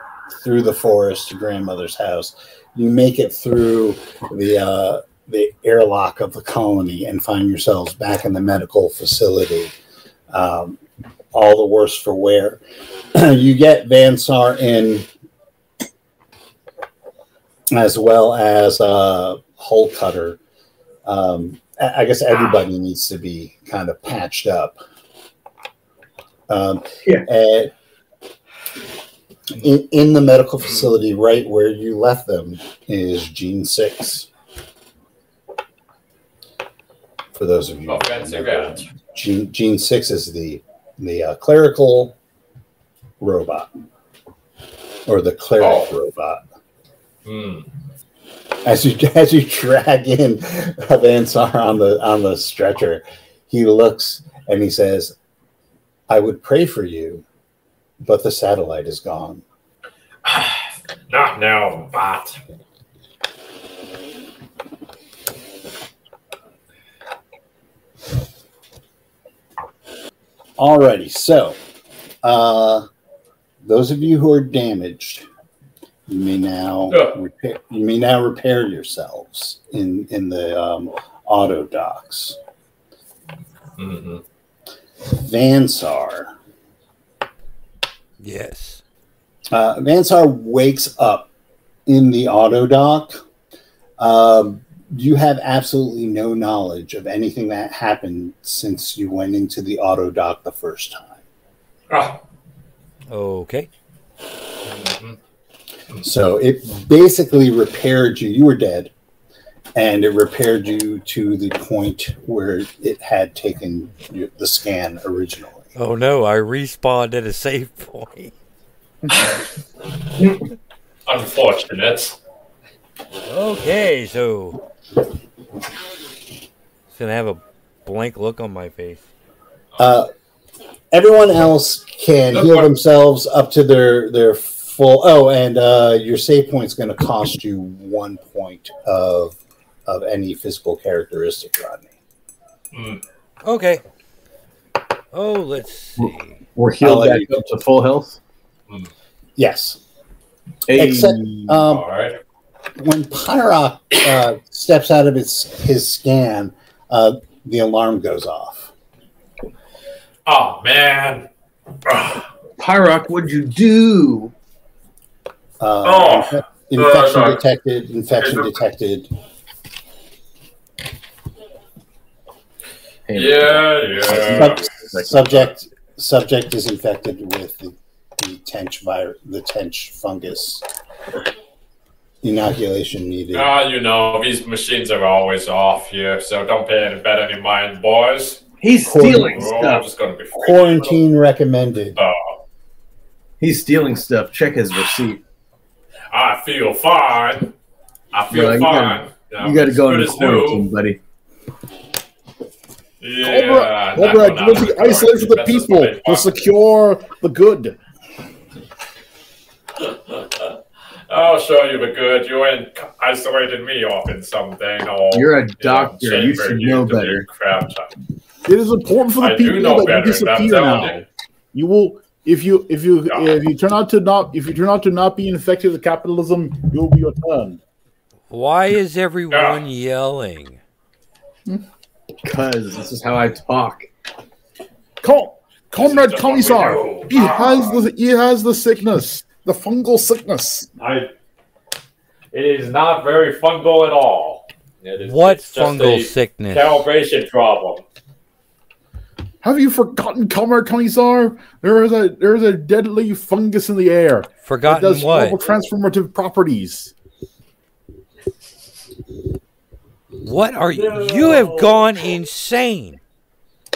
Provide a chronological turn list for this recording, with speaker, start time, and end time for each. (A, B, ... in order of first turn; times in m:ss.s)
0:00.4-0:09.7 A
0:10.3-0:10.8 A
0:11.3-0:12.6 A
0:13.1-0:15.1 A
0:17.7-0:20.4 A
0:21.0-0:24.8 A
0:26.5-0:27.7 A
0:29.5-0:34.3 A
0:37.4-0:42.2 A
0:37.9-0:38.8 B
0:43.2-0:43.7 A
0:45.0-0:46.4 A
0:45.6-0:45.9 B
0:47.2-0:47.7 B
0:48.6-0:55.2 A
0:56.1-0:57.2 A
0:58.0-0:59.4 A
1:00.2-1:02.4 B
1:10.6-1:11.6 A
1:12.2-1:12.8 A
1:13.6-1:15.2 A
1:16.1-1:22.4 A
1:16.9-1:17.2 B
1:23.8-1:24.2 B
1:25.0-1:26.3 A
1:28.2-1:28.8 C
1:29.5-1:31.3 A
1:31.9-1:33.2 A
1:34.0-1:41.2 A
1:41.9-1:42.2 B
1:43.1-1:43.7 C
1:44.6-1:45.2 B
1:46.0-1:48.9 A
1:49.7-1:55.7 A
1:55.8-1:58.3 C
2:01.0-2:02.2 B
2:03.3-2:04.6 C
2:06.9-2:09.0 C
2:09.8-2:10.1 A
2:10.9-2:21.9 A
2:12.3-2:12.7 B
2:22.7-2:23.0 B
2:23.4-2:23.8 C
2:25.1-2:26.3 C
2:26.0-2:28.2 D
2:26.8-2:27.4 A
2:29.4-2:29.8 A
2:30.7-2:31.6 D
2:30.7-2:31.8 A
2:31.6-2:32.2 B
2:32.8-2:38.7 A
2:40.2-2:41.3 B
2:41.9-2:42.2 B
2:42.6-2:44.3 D
2:45.6-2:49.1 A
2:45.8-2:47.4 B
2:48.2-2:48.5 B
2:53.0-2:55.4 D
2:53.1-2:54.6 B
2:54.1-3:00.6 A
3:02.2-3:03.5 A
3:03.3-3:08.4 B
3:08.6-3:09.8 D
3:08.8-3:09.5 A
3:09.0-3:11.0 B
3:10.3-3:12.0 A
3:12.0-3:12.4 B
3:13.4-3:15.2 D
3:16.1-3:17.5 B
3:18.1-3:20.7 B
3:18.3-3:21.0 D
3:23.0-3:26.3 B
3:23.2-3:27.8 E
3:29.8-3:30.5 B
3:31.1-3:37.9 B
3:35.1-3:37.2 D
3:38.4-3:41.0 E
3:39.2-3:41.0 B
3:41.5-3:47.6 E
3:43.1-3:43.3 B
3:48.3-3:50.6 C
3:49.3-3:49.6 B
3:52.2-3:53.9 D
3:55.0-4:00.7 E
3:55.8-3:57.8 B
4:00.8-4:01.1 B
4:02.3-4:07.8 B
4:05.0-4:06.8 C
4:09.4-4:16.9 E
4:14.4-4:15.4 C
4:20.2-4:23.0 C
4:20.7-4:22.0 B